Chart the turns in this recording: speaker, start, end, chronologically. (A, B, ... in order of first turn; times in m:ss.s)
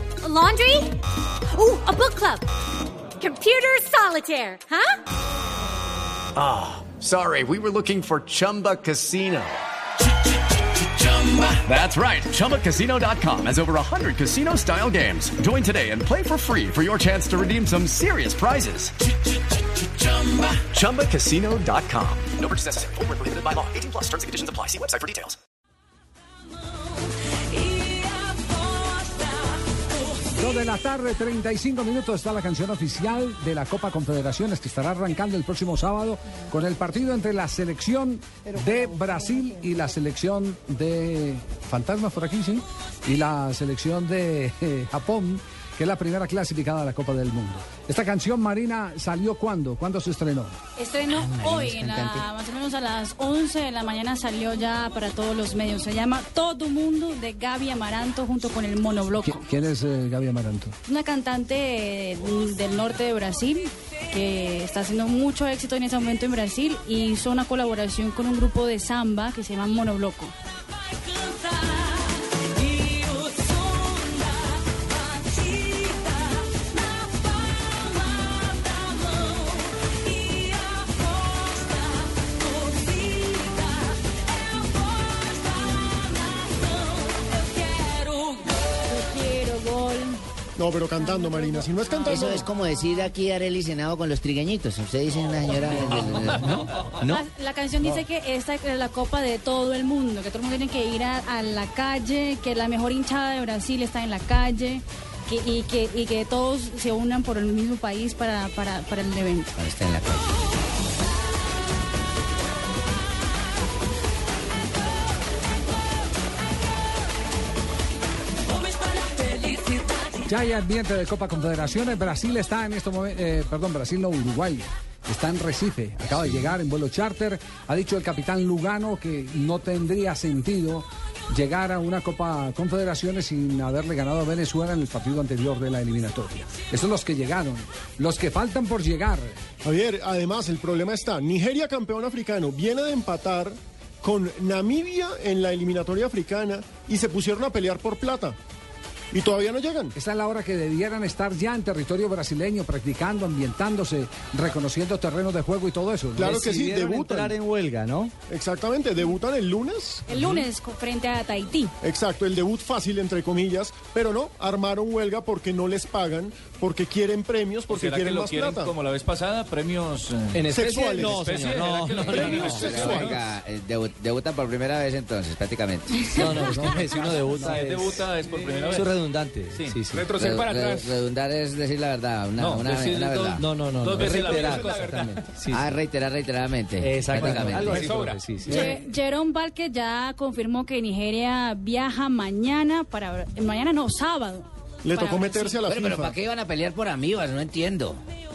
0:00.2-0:02.5 A
0:03.2-0:05.0 A
0:06.4-0:09.6 B
0:11.0-0:18.9 B
0:20.0-0:25.4 B
0:30.3-0:50.6 C
0:50.8-0:59.4 D
0:51.2-0:52.2 E
0:59.2-1:00.8 C
1:00.8-1:10.3 D
1:12.7-1:14.0 D
1:15.3-1:15.7 D
1:19.9-1:20.2 D
1:27.6-1:30.2 D
1:30.6-1:32.4 F
1:31.0-1:32.5 D
1:32.1-1:37.2 E
1:37.0-1:49.5 D
1:49.6-1:50.3 E
2:00.2-2:19.4 C
2:19.6-2:28.4 F
2:29.1-2:29.9 F
2:30.0-2:36.4 C
2:36.2-2:37.4 F
2:36.2-2:38.1 G
2:38.3-2:40.0 F
2:40.1-2:41.7 D
2:41.8-2:48.7 F
2:47.7-2:53.2 H
2:50.3-2:53.1 G
2:50.5-2:51.2 F
2:52.0-2:53.1 F
2:52.6-2:56.2 E
2:56.1-2:58.0 G
2:56.2-2:57.7 C
2:57.4-2:59.0 H
2:58.7-3:00.1 G
2:59.5-3:01.1 H
3:00.1-3:03.4 E
3:02.4-3:05.4 H
3:03.3-3:05.8 G
3:05.5-3:07.9 E
3:06.8-3:08.8 G
3:07.0-3:08.2 H
3:08.5-3:15.6 D
3:14.8-3:16.2 F
3:15.7-3:18.0 E